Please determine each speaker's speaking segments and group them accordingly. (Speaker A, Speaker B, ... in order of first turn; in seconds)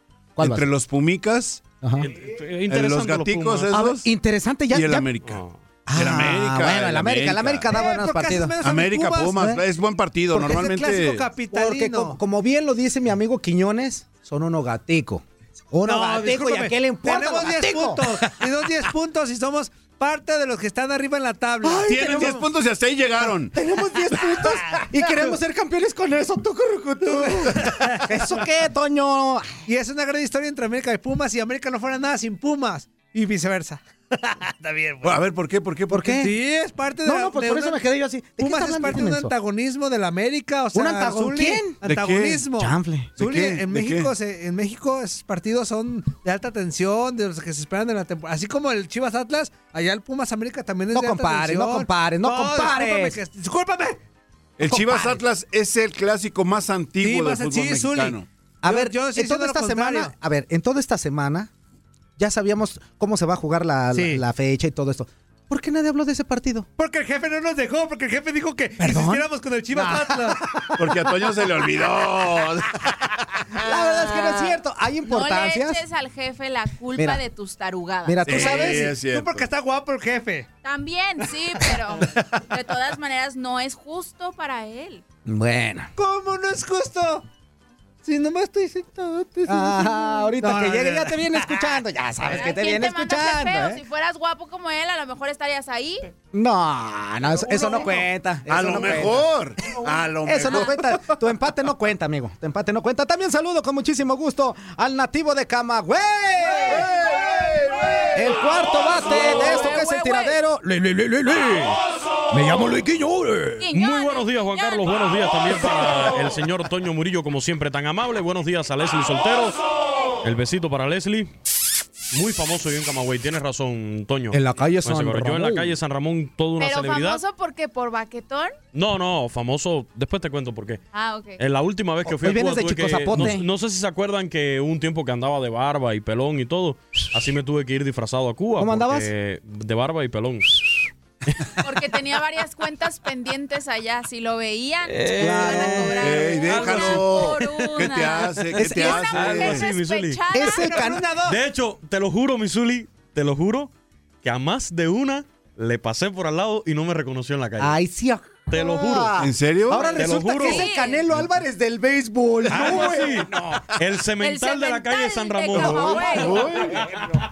Speaker A: 0.4-0.7, 1.8-2.1, 3.7-5.1, 5.9-8.5, 11.5-18.3, 21.6-22.4, 23.5-29.6, 35.9-36.4, 37.0-39.3, 40.7-41.8, 42.6-43.2, 50.9-53.2, 58.6-61.5, 62.2-66.7, 68.8-70.9, 73.5-75.8, 77.0-77.2, 78.0-78.9, 85.3-85.9, 89.5-93.8, 96.3-99.3, 100.2-106.9, 108.1-111.8, 112.3-113.6, 124.3-125.8, 132.1-133.5, 138.6-139.1, 145.2-146.3, 148.6-148.9, 150.3-151.1, 157.6-163.3, 165.6-166.4
Speaker B: 0.4-1.7, 2.7-4.1, 4.7-5.4, 5.9-7.7, 8.6-11.3, 21.7-23.5, 35.0-36.1, 41.8-42.4, 43.2-44.1, 54.6-58.3, 70.8-72.8, 78.3-79.5, 98.5-100.8, 106.7-108.2, 145.9-149.7, 159.2-160.0, 162.5-163.0, 165.6-166.9
Speaker C: 2.0-3.7, 5.2-5.5, 113.7-119.6, 120.2-121.3, 122.1-127.2, 128.7-130.8, 131.4-141.5, 144.9-147.3, 148.9-150.2, 151.3-153.7, 154.2-157.8, 158.5-159.2, 159.9-160.7, 162.5-166.5
Speaker D: 7.7-9.4, 10.4-12.2, 15.8-22.4, 24.4-24.9, 27.1-28.3, 29.7-35.2, 36.1-37.8, 38.4-54.0, 54.7-55.2, 57.0-60.1, 63.9-64.2, 66.8-70.4, 78.3-80.5, 86.0-87.2, 88.0-91.6, 97.5-98.0, 150.4-151.4
Speaker E: 73.7-74.5, 75.1-78.4, 80.6-85.0, 92.2-96.1, 107.7-108.1, 108.8-110.4, 113.6-115.9, 126.6-128.6, 130.9-131.4, 141.6-150.8, 160.4-161.0, 164.2-166.6